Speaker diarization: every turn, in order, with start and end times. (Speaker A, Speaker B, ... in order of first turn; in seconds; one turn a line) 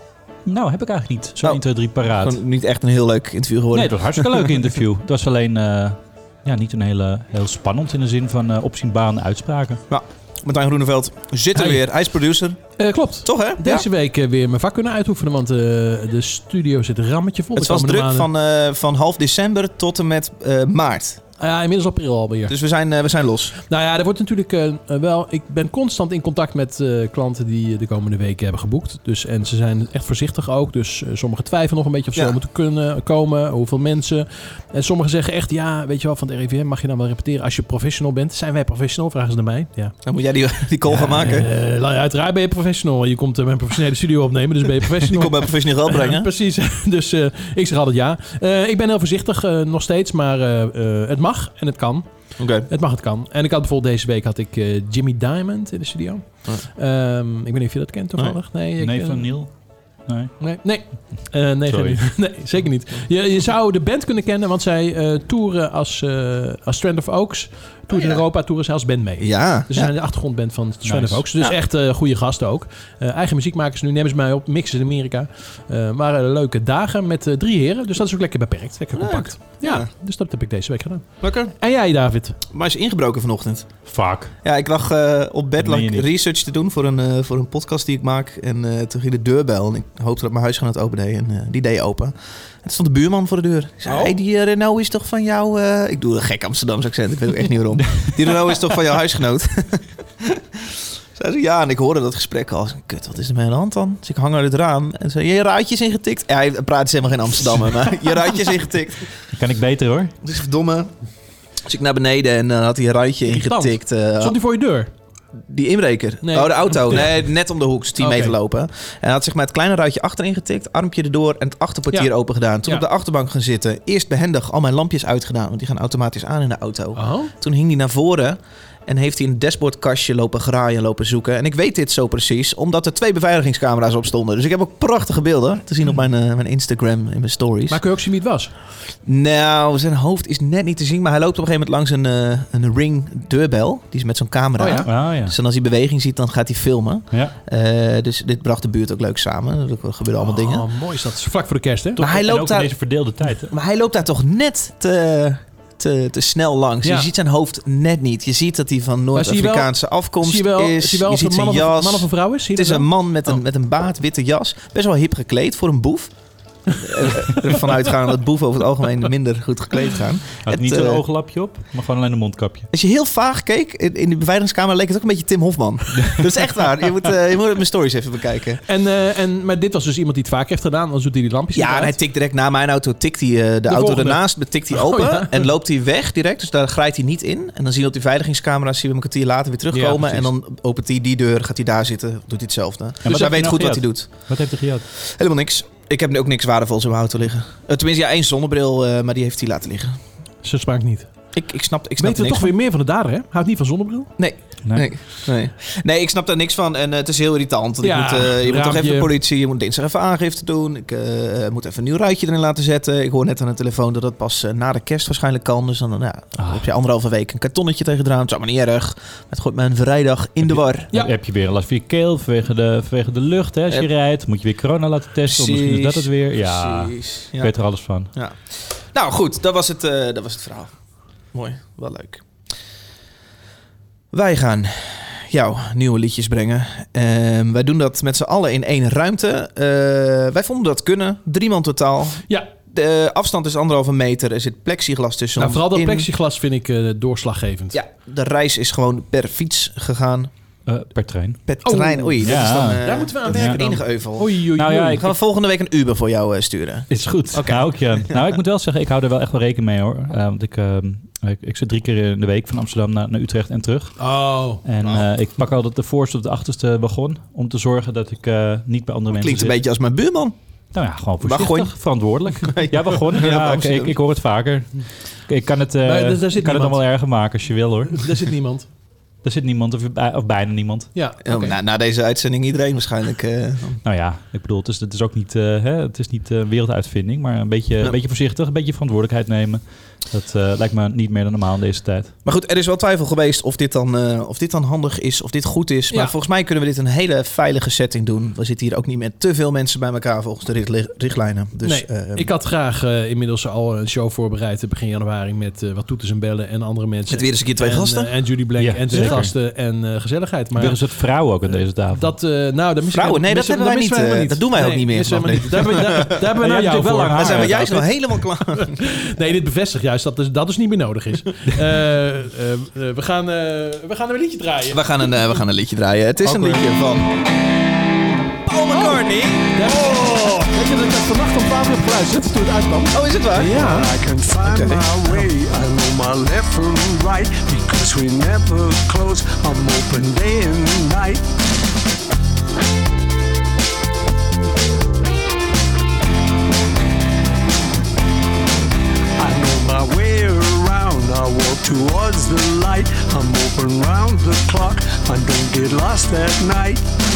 Speaker A: 0.5-2.4
Speaker B: 1.4-4.6
Speaker A: 3.7-9.8
Speaker B: 9.9-12.6
Speaker C: 12.8-18.3
Speaker B: 13.2-13.8
Speaker B: 17.6-21.2
Speaker C: 21.4-22.5
Speaker B: 22.5-23.6
Speaker C: 23.7-40.0
Speaker B: 40.0-41.5
Speaker C: 40.9-59.3
Speaker B: 45.0-46.3
Speaker B: 52.4-52.7
Speaker A: 58.8-59.5
Speaker A: 60.1-60.3
Speaker C: 60.4-82.4
Speaker A: 61.7-62.0
Speaker B: 67.9-68.2
Speaker B: 69.2-69.9
Speaker A: 70.8-71.2
Speaker B: 79.0-79.9
Speaker B: 81.2-81.5
Speaker B: 82.5-83.7
Speaker A: 83.9-84.3
Speaker B: 84.4-109.1
Speaker A: 85.6-86.0
Speaker C: 93.9-94.1
Speaker A: 109.3-110.1
Speaker B: 110.2-110.9
Speaker B: 111.6-114.4
Speaker C: 113.2-114.9
Speaker B: 115.5-137.8
Speaker C: 116.2-117.2
Speaker C: 118.0-118.3
Speaker C: 127.0-127.3
Speaker C: 137.7-138.5
Speaker B: 139.0-150.7
Speaker C: 144.6-144.9
Speaker A: 144.8-145.3
Speaker C: 150.2-152.0
Speaker A: 152.0-153.5
Speaker B: 152.0-152.8
Speaker B: 153.5-166.1
Speaker C: 156.8-157.1
Speaker C: 159.1-163.4
Speaker B: 166.7-171.0
Speaker A: 170.4-172.7
Speaker B: 172.7-178.6
Speaker C: 178.7-181.9
Speaker B: 181.5-194.1
Speaker C: 183.7-185.4
Speaker C: 189.7-190.3
Speaker A: 193.0-194.8
Speaker B: 195.0-200.0
Speaker C: 200.4-201.1
Speaker B: 201.3-202.5
Speaker C: 202.0-204.1
Speaker B: 204.2-220.9
Speaker C: 207.8-209.1
Speaker A: 216.4-216.6
Speaker A: 220.4-228.1
Speaker B: 225.2-227.5
Speaker B: 228.1-230.7
Speaker B: 231.3-232.2
Speaker B: 234.1-246.1
Speaker C: 245.4-247.8
Speaker B: 247.7-250.3
Speaker A: 250.7-251.4
Speaker B: 251.5-258.4
Speaker C: 251.6-255.1
Speaker A: 252.2-253.6
Speaker A: 254.6-255.1
Speaker A: 256.9-264.0
Speaker C: 264.0-264.6
Speaker A: 264.6-269.6
Speaker B: 264.8-265.1
Speaker B: 269.1-270.4
Speaker A: 270.7-278.3
Speaker B: 271.2-271.7
Speaker B: 272.4-274.0
Speaker C: 275.8-276.8
Speaker C: 277.9-278.6
Speaker A: 279.2-280.9
Speaker C: 280.9-281.6
Speaker B: 281.2-283.8
Speaker A: 283.8-292.1
Speaker B: 292.2-302.3
Speaker C: 301.6-310.8
Speaker B: 307.1-308.1
Speaker A: 308.6-309.3
Speaker B: 308.9-309.3
Speaker A: 310.6-312.1
Speaker C: 311.9-317.8
Speaker B: 312.9-316.2
Speaker A: 316.4-317.9
Speaker B: 317.1-318.9
Speaker C: 318.4-325.0
Speaker B: 324.7-327.1
Speaker C: 326.2-326.6
Speaker B: 328.4-329.7
Speaker C: 328.7-333.9
Speaker B: 332.9-333.6
Speaker D: 333.5-341.3
Speaker B: 334.4-334.9
Speaker D: 349.1-356.9